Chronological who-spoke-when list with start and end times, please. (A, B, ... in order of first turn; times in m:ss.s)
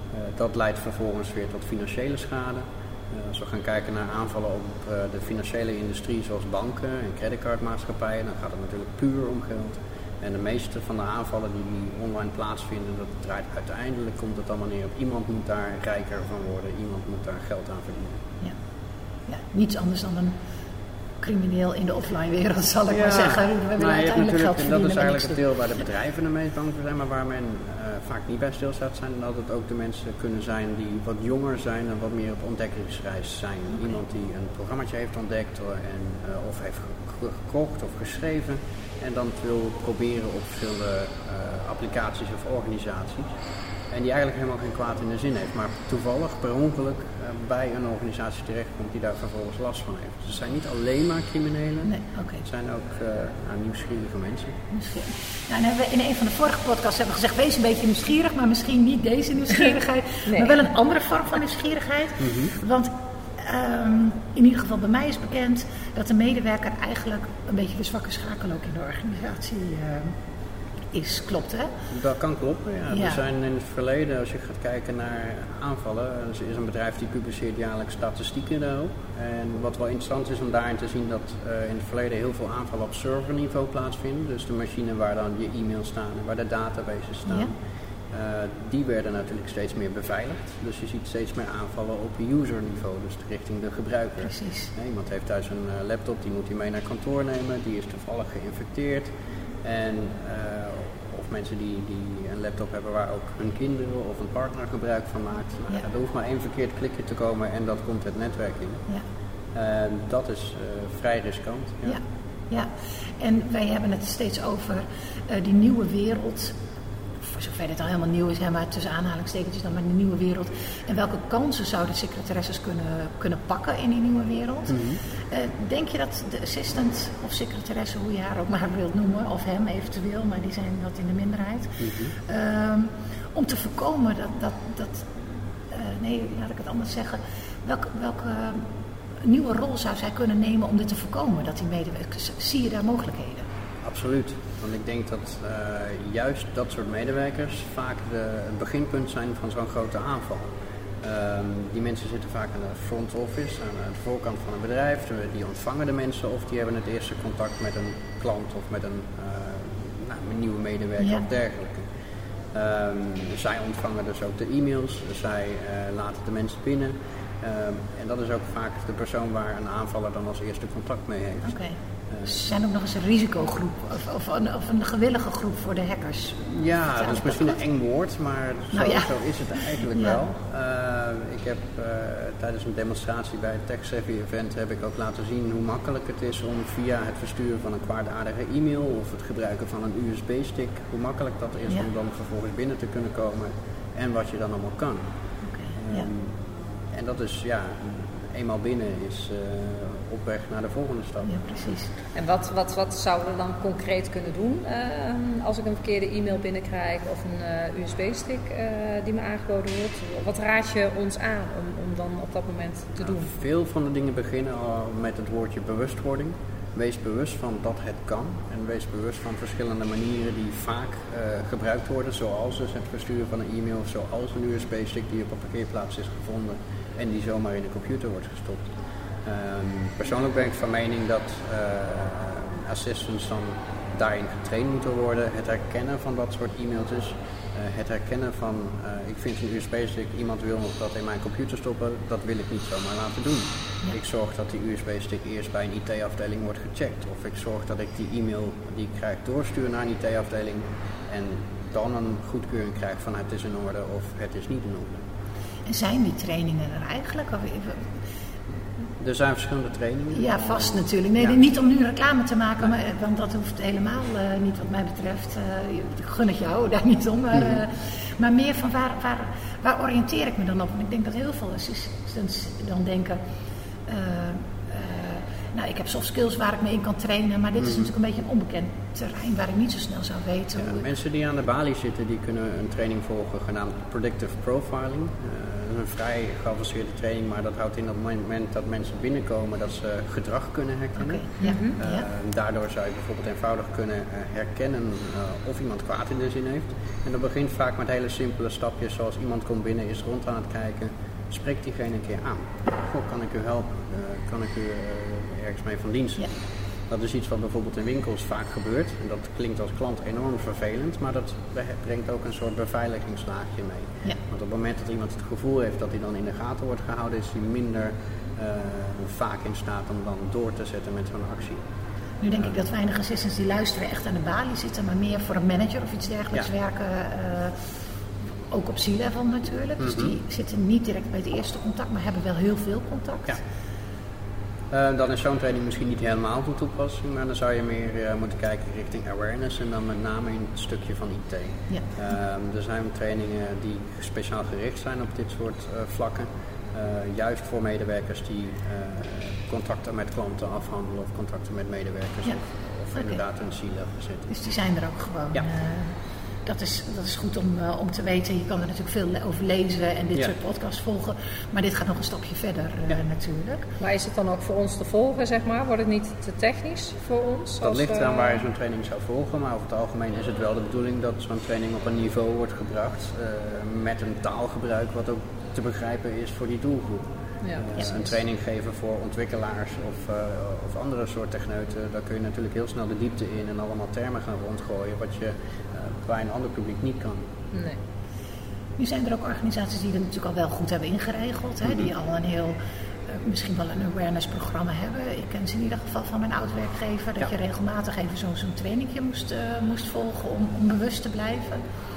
0:00.1-0:18.2 A
0:19.3-0:20.4 B
0:21.2-0:25.4 B
0:22.9-0:43.3 A
0:43.9-0:54.6 A
0:51.8-0:52.4 B
0:54.7-1:10.2 B
1:00.3-1:00.6 C
1:02.2-1:02.5 A
1:10.9-1:11.7 B
1:11.9-1:27.5 A
1:12.9-1:13.2 B
1:28.1-1:48.8 A
1:34.2-1:34.7 B
1:49.5-1:52.0 A
1:51.8-1:56.6 B
1:57.2-2:18.7 B
2:04.7-2:05.0 A
2:11.8-2:12.1 A
2:19.2-2:23.5 B
2:23.8-2:30.5 A
2:31.0-2:41.9 A
2:42.5-2:51.5 A
2:51.4-2:56.5 B
2:56.5-3:15.0 A
2:57.0-2:57.6 B
2:58.7-2:59.1 B
2:59.9-3:00.2 B
3:15.5-3:16.1 B
3:15.8-3:21.4 A
3:21.2-3:21.9 B
3:22.2-3:33.3 C
3:33.0-3:48.7 A
3:49.2-4:15.0 A
4:15.7-4:17.8 B
4:19.0-4:21.4 A
4:20.1-4:33.2 B
4:33.9-4:40.8 B
4:37.6-4:37.9 A
4:40.6-5:06.3 A
4:51.0-4:52.0 B
4:51.4-4:51.7 C
5:06.9-5:21.6 A
5:22.2-5:27.6 B
5:28.5-5:33.4 B
5:29.8-5:30.1 A
5:34.7-5:54.3 A
5:54.3-6:03.7 B
6:03.8-6:08.4 C
6:07.6-6:27.3 A
6:17.8-6:18.1 B
6:27.5-6:27.8 C
6:28.8-6:41.6 B